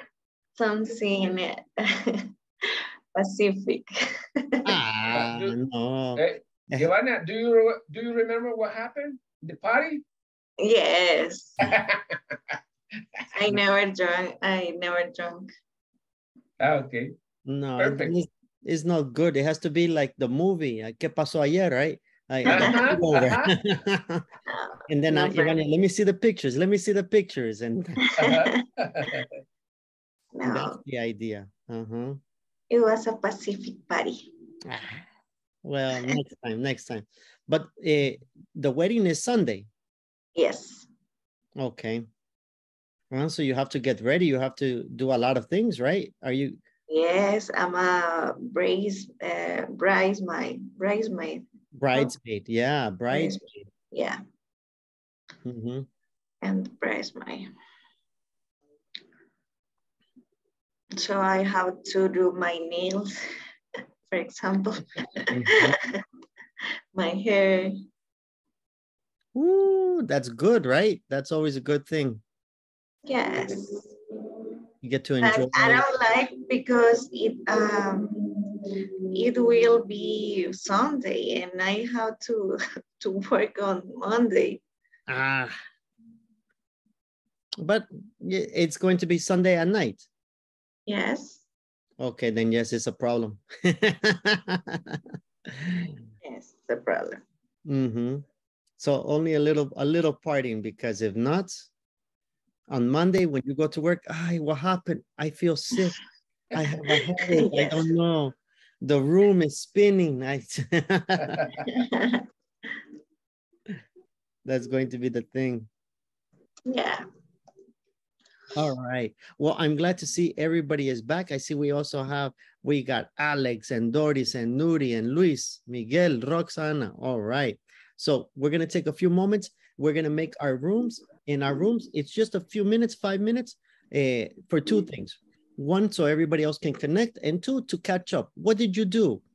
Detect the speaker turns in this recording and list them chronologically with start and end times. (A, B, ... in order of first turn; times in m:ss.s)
0:00.6-0:04.6 A
0:04.6-0:06.9 B
0:05.1-0:05.6 C
0:06.2-0:10.0 C
0:10.6-0:11.6 A
0:11.6-0:12.6 C
0:13.3-0:15.5 A
0:16.6-0:17.1 C
0:17.5-0:24.2 B
0:17.8-0:18.1 C
0:22.4-0:23.5 C
0:22.5-0:22.9 A
0:24.5-0:25.6 A
0:24.9-0:28.0 B
0:28.2-0:28.5 A
0:28.2-0:29.3 C
0:30.3-0:30.8 A
0:30.5-0:32.2 B
0:32.7-0:34.3 A
0:34.7-0:35.1 B
0:35.6-0:39.7 B
0:40.4-0:40.9 A
0:41.6-0:42.0 B
0:43.1-0:46.6 B
0:46.9-0:52.1 A
0:51.8-0:53.6 B
0:53.1-0:54.2 A
0:55.4-0:55.9 B
0:56.4-0:57.5 A
1:01.0-1:03.1 A
1:04.1-1:06.0 A
1:05.3-1:05.8 B
1:07.0-1:07.7 A
1:09.3-1:12.2 B
1:13.1-1:14.0 A
1:14.8-1:15.9 B
1:15.2-1:24.6 A
1:25.1-1:25.6 B
1:27.6-1:30.1 B
1:30.9-1:31.4 A
1:32.0-1:35.9 B
1:36.2-1:37.2 A
1:37.6-1:38.2 B
1:38.8-1:41.7 B
1:42.7-1:46.0 B
1:46.5-1:51.5 B
1:46.9-1:47.9 A
1:51.7-1:52.8 A
1:54.4-1:55.7 B
1:56.7-1:57.0 A
1:58.6-2:19.2 B